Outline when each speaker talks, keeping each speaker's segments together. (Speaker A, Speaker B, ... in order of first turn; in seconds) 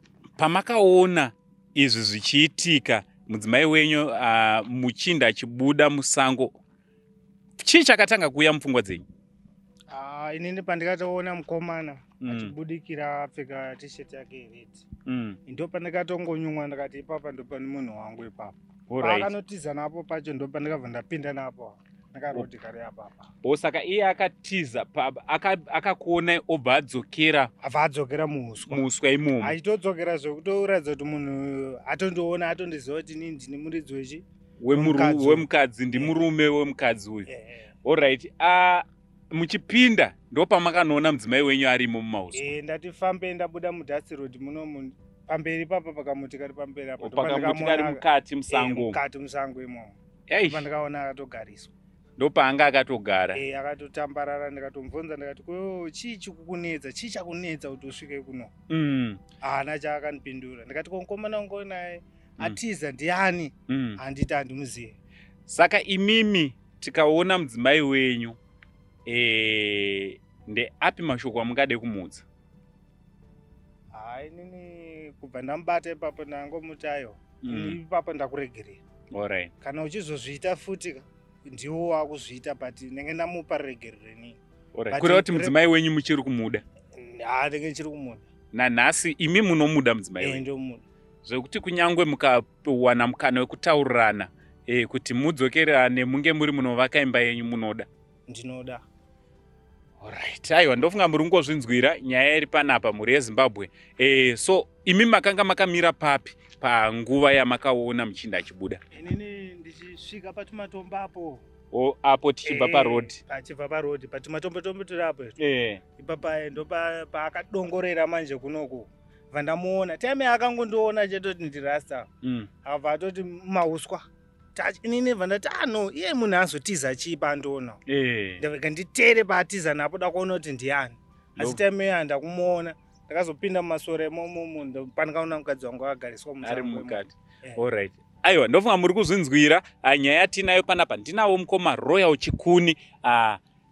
Speaker A: 0.4-6.5, 7.6-9.1, 12.2-12.5, 15.1-15.4, 18.9-19.3, 23.4-27.5, 28.7-29.6, 34.6-37.3, 37.9-42.5, 47.0-49.0, 50.3-50.7, 52.2-53.4, 58.7-59.2, 63.7-64.0, 65.5-68.4, 69.1-72.2, 77.4-77.8, 79.1-79.5, 84.8-86.6, 88.5-90.4, 91.2-97.9, 100.0-108.8, 111.7-113.2, 115.4-115.8, 122.2-122.5, 127.9-128.4, 136.4-143.4
Speaker B: 9.9-14.9, 15.5-23.3, 27.6-28.9, 29.4-36.2, 37.3-37.7, 42.3-50.0, 50.5-51.7, 53.3-58.5, 59.4-65.0, 73.9-78.8, 79.6-84.4, 84.9-85.6, 87.0-88.3, 90.2-90.8, 98.3-98.8, 108.9-111.4, 112.5-115.4, 116.0-122.1, 122.6-124.0, 124.5-127.8, 128.4-137.6